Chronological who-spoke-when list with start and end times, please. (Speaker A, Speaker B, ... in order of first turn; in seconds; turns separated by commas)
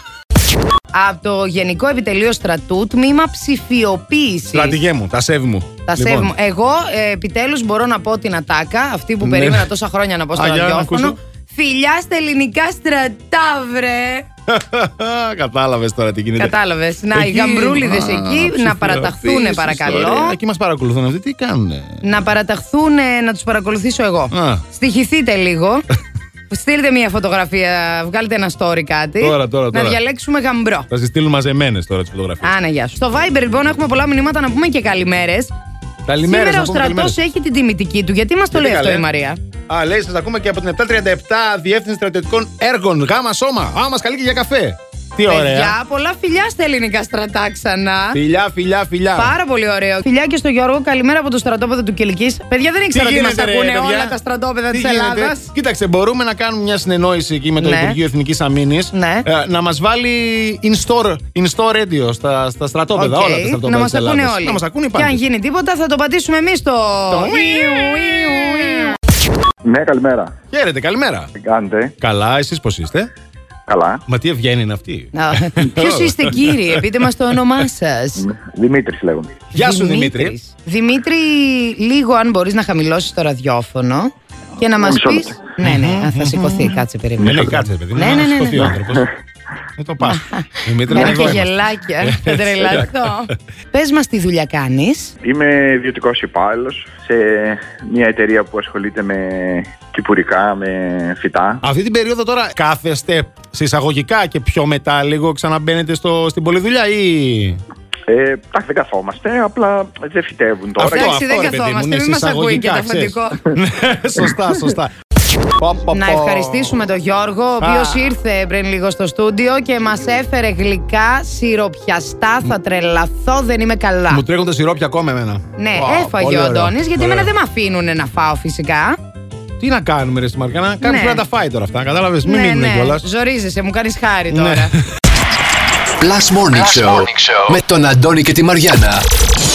Speaker A: 0.9-4.8, Speaker B: 4.5-6.3, Speaker A: 5.8-14.3, Speaker B: 9.2-9.7, Speaker B: 10.3-11.2, Speaker B: 14.5-16.5, Speaker A: 16.4-20.4, Speaker B: 17.1-22.0, Speaker A: 22.0-25.8, Speaker B: 24.3-24.6, Speaker A: 26.5-30.9, Speaker B: 29.2-30.0, Speaker B: 30.9-32.5, Speaker A: 32.4-35.5, Speaker B: 36.1-37.2, Speaker A: 36.2-39.4, Speaker B: 38.5-39.0, Speaker B: 39.7-45.8, Speaker A: 45.2-48.2, Speaker B: 48.1-49.3, Speaker A: 49.1-55.5, Speaker B: 52.9-54.2, Speaker B: 54.7-65.2, Speaker A: 57.6-58.0, Speaker A: 58.9-59.2, Speaker A: 62.9-69.0, Speaker B: 67.1-68.1, Speaker C: 69.6-70.3, Speaker B: 70.5-71.3, Speaker C: 71.4-71.9, Speaker B: 72.0-73.1, Speaker C: 73.7-74.0, Speaker B: 74.0-76.9, Speaker A: 75.1-78.3, Speaker C: 78.2-79.4, Speaker B: 79.5-80.3, Speaker A: 79.5-88.8, Speaker C: 84.9-85.5, Speaker B: 85.6-89.1, Speaker B: 89.8-92.9, Speaker A: 90.0-95.1, Speaker C: 95.2-101.6, Speaker B: 101.6-107.6, Speaker C: 108.1-111.4, Speaker B: 110.8-114.9, Speaker A: 110.8-113.5, Speaker B: 115.6-116.8, Speaker A: 115.9-124.2, Speaker B: 117.6-118.1, Speaker B: 124.1-127.3, Speaker A: 125.5-129.0, Speaker B: 129.6-133.1, Speaker A: 130.8-131.2, Speaker A: 132.2-134.7, Speaker B: 134.3-134.8, Speaker D: 136.0-139.1, Speaker C: 136.7-136.9